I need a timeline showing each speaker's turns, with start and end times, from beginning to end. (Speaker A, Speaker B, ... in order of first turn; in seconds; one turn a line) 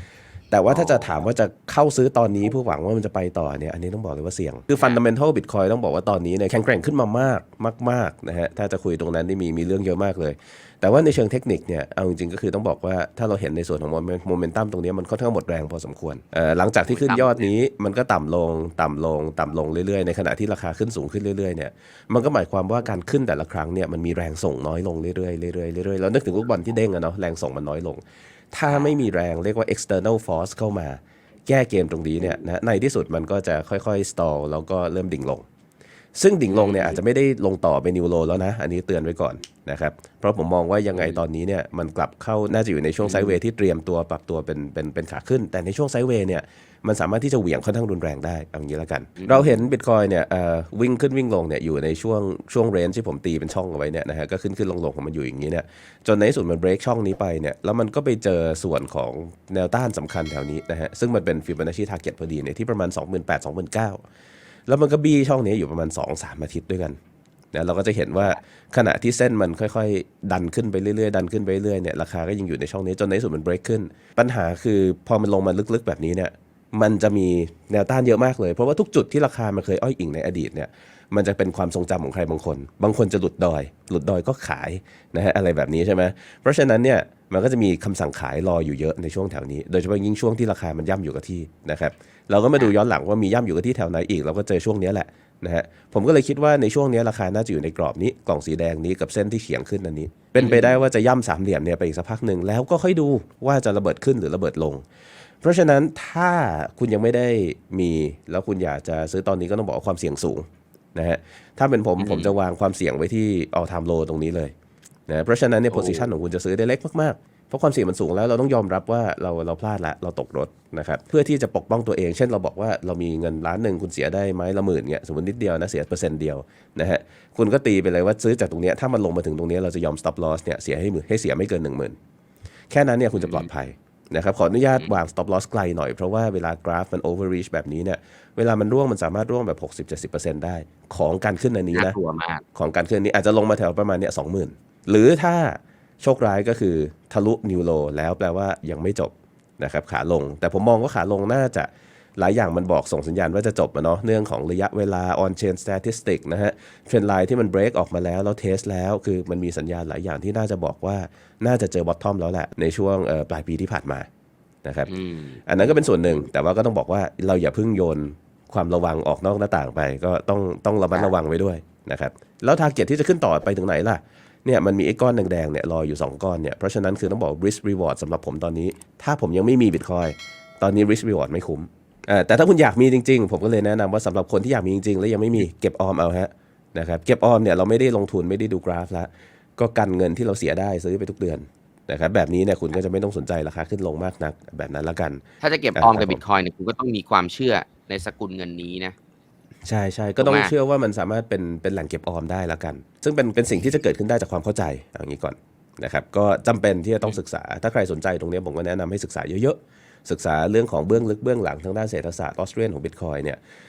Speaker A: 0.5-28.0
Speaker B: 0.7-1.1
Speaker B: 16.9-17.5
Speaker A: 28.5-35.4
Speaker B: 28.7-28.9
Speaker A: 36.1-64.0
Speaker B: 36.5-37.0
Speaker B: 40.9-41.2
Speaker B: 43.0-43.4
Speaker B: 49.2-49.6
Speaker A: 64.7-67.0
Speaker A: 67.5-104.8
Speaker B: 100.3-100.8
Speaker A: 105.4-114.5
Speaker B: 112.0-112.3
Speaker A: 115.1-131.9
Speaker B: 115.7-116.1
Speaker A: 132.7-141.9
Speaker B: 133.1-133.5
Speaker B: 141.7-142.4
Speaker A: 142.5-164.1
Speaker A: 164.6-164.9
Speaker B: 164.9-166.3
Speaker A: 165.5-195.2
Speaker B: 195.4-198.9
Speaker A: 195.7-196.2
Speaker A: 199.7-213.4
Speaker B: 200.2-200.5